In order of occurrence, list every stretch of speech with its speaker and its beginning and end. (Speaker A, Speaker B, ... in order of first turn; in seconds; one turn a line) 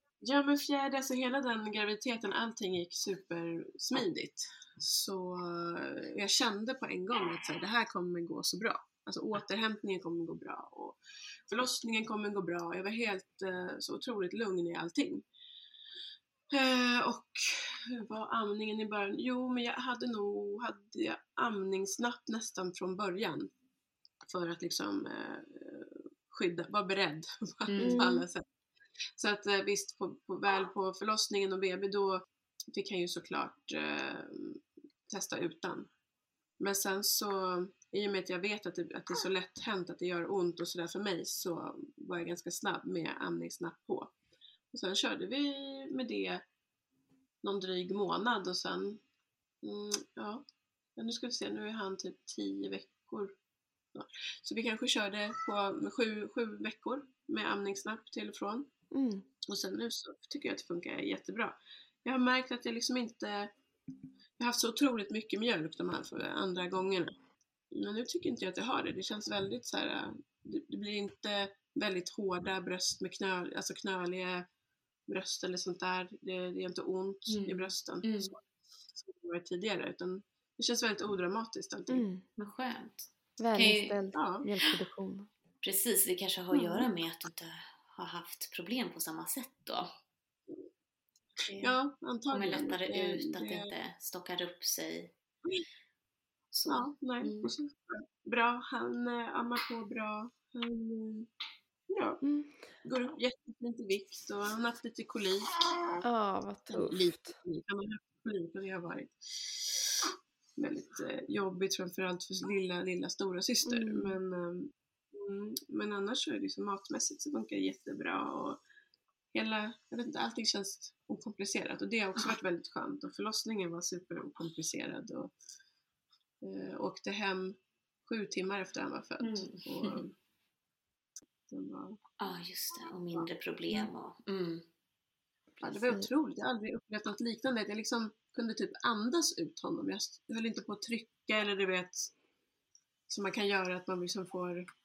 Speaker A: 0.2-11.0
Speaker A: 11.5-15.2
Speaker A: 16.5-23.5
Speaker A: 24.2-28.4
Speaker B: 27.7-28.0
Speaker C: 27.8-28.2
Speaker A: 29.1-35.9
Speaker A: 36.6-44.1
Speaker A: 44.7-46.4
Speaker A: 47.4-49.0
Speaker A: 49.6-50.4
Speaker A: 51.0-53.3
Speaker A: 53.9-58.7
Speaker C: 58.9-59.2
Speaker A: 59.5-63.5
Speaker A: 64.4-67.1
Speaker A: 67.7-74.5
Speaker A: 75.1-78.4
Speaker B: 77.3-78.3
Speaker A: 78.9-82.0
Speaker C: 81.9-82.2
Speaker B: 82.4-84.0
Speaker C: 83.4-85.3
Speaker A: 84.1-84.5
Speaker B: 85.6-89.9
Speaker A: 86.5-86.9
Speaker B: 91.4-91.8
Speaker A: 91.6-93.7
Speaker B: 92.3-95.1
Speaker B: 96.5-97.5
Speaker A: 96.7-101.3
Speaker A: 101.9-102.2
Speaker C: 102.2-102.5
Speaker A: 102.8-106.0
Speaker C: 106.0-107.3
Speaker A: 106.7-118.6
Speaker C: 113.7-114.2
Speaker A: 119.3-125.3
Speaker A: 126.4-130.1
Speaker B: 129.2-130.0
Speaker A: 131.5-132.0
Speaker B: 132.2-134.6
Speaker C: 135.6-136.1
Speaker A: 135.6-142.1
Speaker A: 143.1-144.7